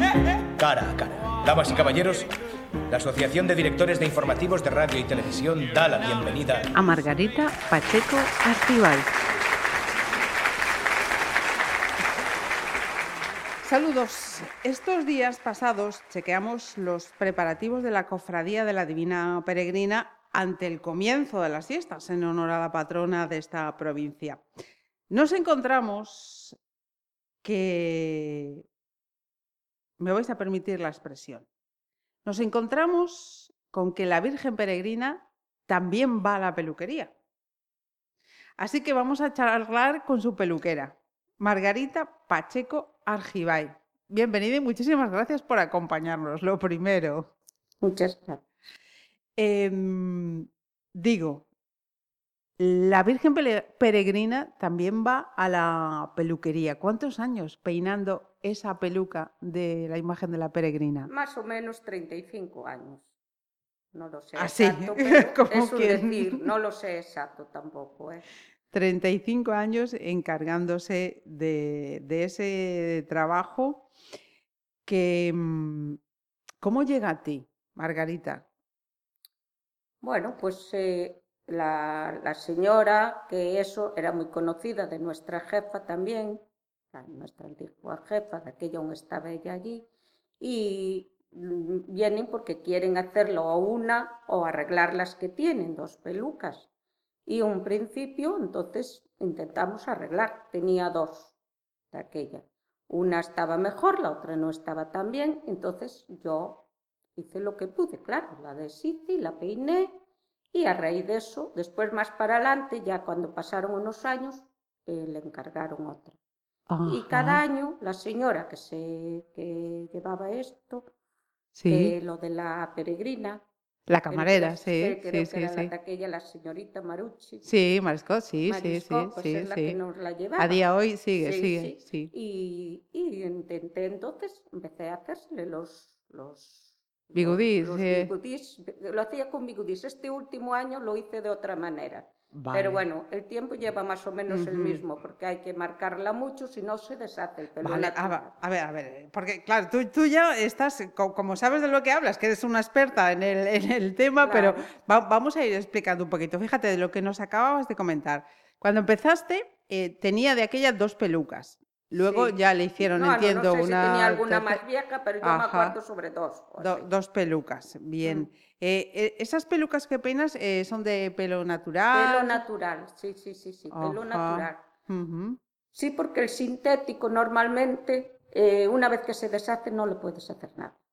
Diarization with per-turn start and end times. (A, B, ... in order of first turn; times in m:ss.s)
0:00.5-0:02.3 A
0:02.9-0:06.7 A
0:06.7-0:09.2 B
0:13.6-0:24.4 B
0:25.1-0:26.6 B
0:27.4-0:28.6 B
0:30.0-0:31.4 B
0:32.2-0:37.1 B
0:38.6-0:47.3 B
0:47.8-0:48.4 C
0:49.4-0:51.4 B
0:52.6-1:01.1 B
1:01.0-1:03.1 C
1:03.9-1:08.2 C
1:04.4-1:06.5 B
1:08.7-1:13.9 B
1:14.9-1:16.0 B
1:16.6-1:18.4 B
1:20.0-1:29.9 C
1:30.4-1:36.7 C
1:37.2-1:41.3 C
1:41.9-1:50.0 C
1:50.5-1:56.2 C
1:56.7-1:57.4 B
1:56.8-2:00.9 C
2:01.5-2:01.9 B
2:01.7-2:03.4 C
2:03.9-2:05.7 B
2:04.1-2:07.4 C
2:07.4-2:09.8 B
2:08.4-2:10.6 C
2:10.4-2:12.1 B
2:11.2-2:28.3 C
2:17.1-2:18.1 B
2:22.3-2:22.8 B
2:24.3-2:24.8 B
2:27.6-2:44.6 B
2:34.2-2:34.6 C
2:41.9-2:46.9 C
2:45.2-2:45.8 B
2:46.6-2:52.4 B
2:51.9-2:54.6 C
2:53.7-2:55.4 B
2:55.7-3:00.8 C